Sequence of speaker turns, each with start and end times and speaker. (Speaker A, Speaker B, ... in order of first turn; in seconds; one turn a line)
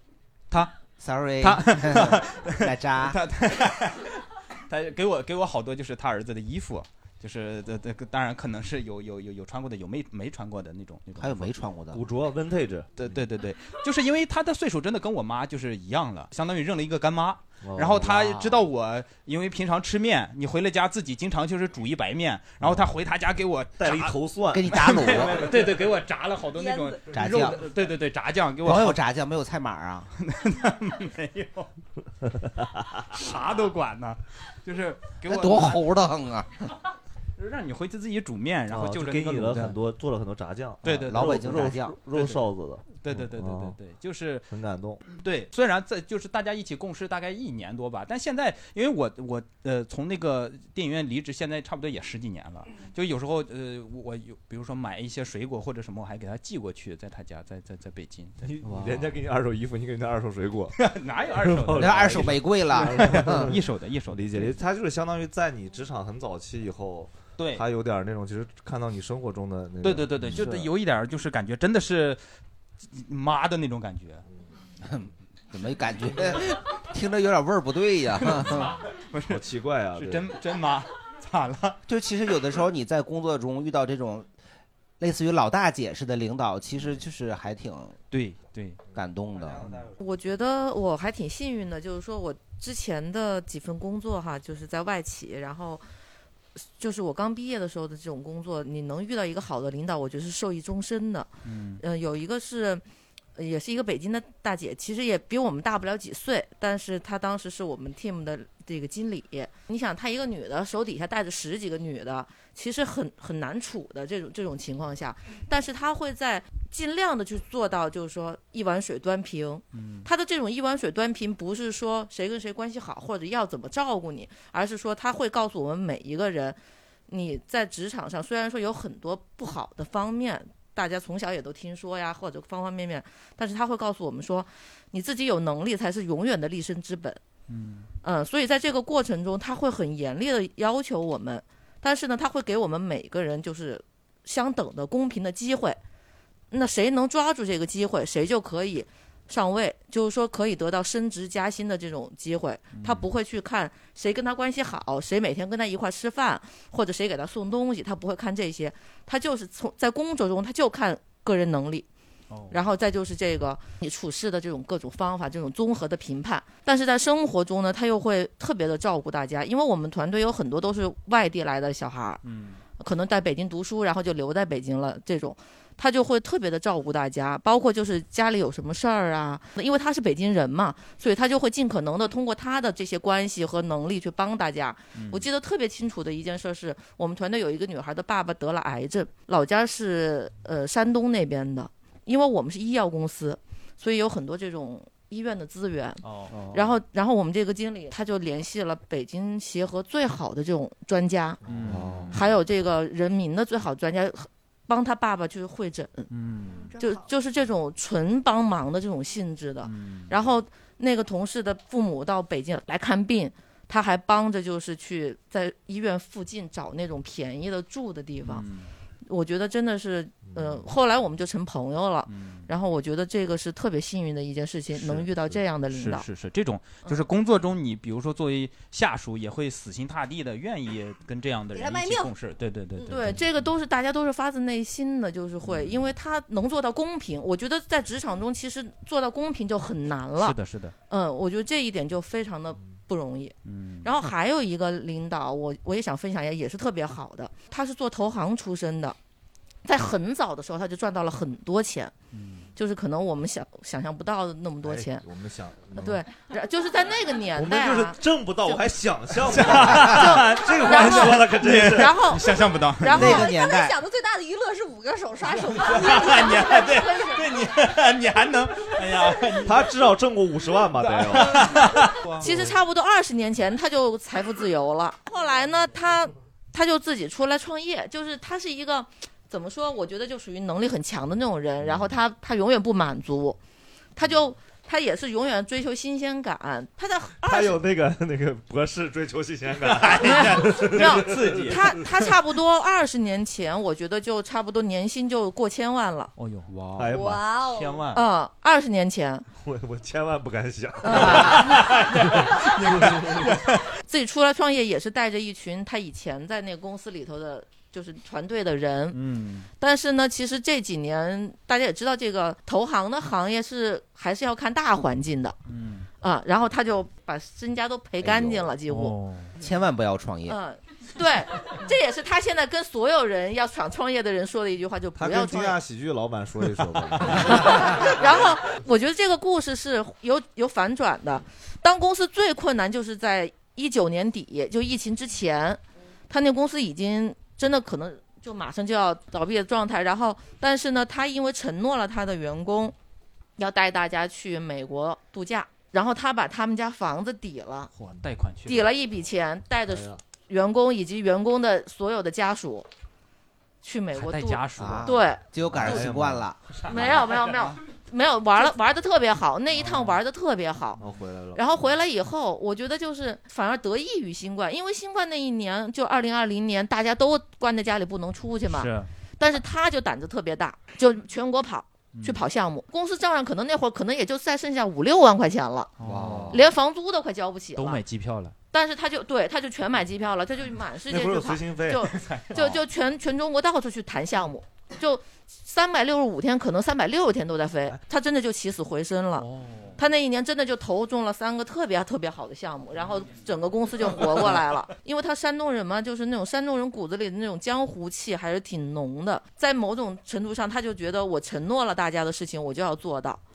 Speaker A: 1.0-3.2
Speaker B: 1.4-11.5
Speaker A: 11.2-12.0
Speaker C: 11.9-13.0
Speaker B: 13.0-24.2
Speaker C: 17.6-18.0
Speaker A: 18.0-18.6
Speaker C: 22.6-22.9
Speaker C: 23.8-24.9
Speaker A: 24.5-25.5
Speaker B: 24.7-29.0
Speaker D: 26.6-27.0
Speaker A: 27.1-27.6
Speaker A: 28.6-30.1
Speaker B: 30.2-31.7
Speaker B: 33.1-35.9
Speaker A: 35.3-36.7
Speaker B: 37.4-39.8
Speaker C: 38.7-43.8
Speaker B: 40.8-42.4
Speaker A: 40.9-42.0
Speaker B: 43.0-44.5
Speaker C: 44.5-45.0
Speaker B: 45.0-59.0
Speaker C: 58.4-63.5
Speaker B: 60.8-64.5
Speaker A: 61.7-63.5
Speaker C: 64.1-70.7
Speaker B: 67.4-67.6
Speaker B: 69.8-72.2
Speaker B: 72.8-74.2
Speaker A: 74.8-78.7
Speaker B: 78.2-79.4
Speaker C: 79.2-80.3
Speaker B: 79.9-81.8
Speaker A: 81.9-84.3
Speaker A: 85.0-88.0
Speaker B: 88.1-88.8
Speaker A: 88.9-89.7
Speaker E: 90.0-95.8
Speaker E: 96.5-102.8
Speaker B: 101.4-101.8
Speaker E: 103.3-137.2
Speaker B: 119.7-120.1
Speaker B: 137.5-137.9
Speaker E: 138.0-145.8
Speaker E: 146.5-161.8
Speaker B: 152.7-153.1
Speaker B: 162.3-162.6
Speaker E: 162.5-172.2
Speaker B: 172.2-172.6
Speaker E: 172.8-201.4
Speaker B: 184.9-185.3
Speaker B: 196.0-196.4
Speaker B: 201.4-202.2
Speaker C: 201.5-202.0
Speaker A: 201.7-202.1
Speaker E: 202.1-206.1
Speaker B: 206.1-206.8
Speaker E: 206.8-218.4
Speaker B: 209.6-210.1
Speaker B: 218.2-218.7
Speaker E: 219.1-226.1
Speaker C: 220.2-220.6
Speaker B: 222.1-222.5
Speaker B: 225.7-233.3
Speaker D: 231.5-232.1
Speaker E: 232.8-240.4
Speaker B: 235.4-235.8
Speaker B: 240.2-240.7
Speaker E: 240.9-249.0
Speaker B: 243.4-243.9
Speaker E: 249.6-251.9
Speaker B: 252.1-252.5
Speaker E: 252.6-255.0
Speaker C: 254.6-256.0
Speaker E: 255.7-258.0
Speaker C: 257.3-261.9
Speaker B: 259.3-263.3
Speaker E: 259.9-263.3
Speaker A: 262.9-263.8
Speaker D: 263.1-267.6
Speaker B: 265.5-269.7
Speaker C: 269.4-271.4
Speaker B: 270.8-272.6
Speaker E: 272.2-283.4
Speaker C: 281.6-281.9
Speaker E: 283.9-287.6
Speaker C: 287.2-291.6
Speaker B: 289.6-292.1
Speaker E: 290.0-296.1
Speaker B: 296.2-296.8
Speaker C: 296.8-297.2
Speaker D: 296.9-297.8
Speaker B: 297.5-298.0
Speaker E: 297.9-299.2
Speaker C: 299.4-303.2
Speaker B: 300.9-303.6
Speaker D: 300.9-301.3
Speaker E: 303.8-309.0
Speaker B: 308.9-309.5
Speaker E: 309.6-315.4
Speaker B: 315.5-315.9
Speaker E: 316.0-319.0
Speaker C: 318.1-318.4
Speaker B: 318.7-319.4
Speaker A: 319.4-320.4
Speaker E: 320.2-325.6
Speaker C: 324.9-327.9
Speaker E: 327.2-342.7
Speaker E: 343.4-347.7
Speaker B: 347.7-348.7
Speaker E: 348.4-352.7
Speaker C: 349.7-350.0
Speaker E: 353.6-355.2
Speaker B: 353.9-355.0
Speaker A: 354.6-356.4
Speaker C: 355.5-356.9
Speaker E: 356.7-360.8
Speaker B: 356.7-357.3
Speaker B: 359.6-360.0
Speaker C: 360.8-361.5
Speaker E: 361.3-375.7
Speaker B: 368.5-368.9
Speaker B: 371.9-372.2
Speaker B: 375.8-376.4
Speaker A: 375.8-376.4
Speaker E: 376.3-377.8
Speaker B: 377.5-378.3
Speaker E: 378.5-403.2
Speaker C: 380.9-381.9
Speaker B: 382.0-382.6
Speaker B: 389.2-389.8
Speaker B: 393.8-394.6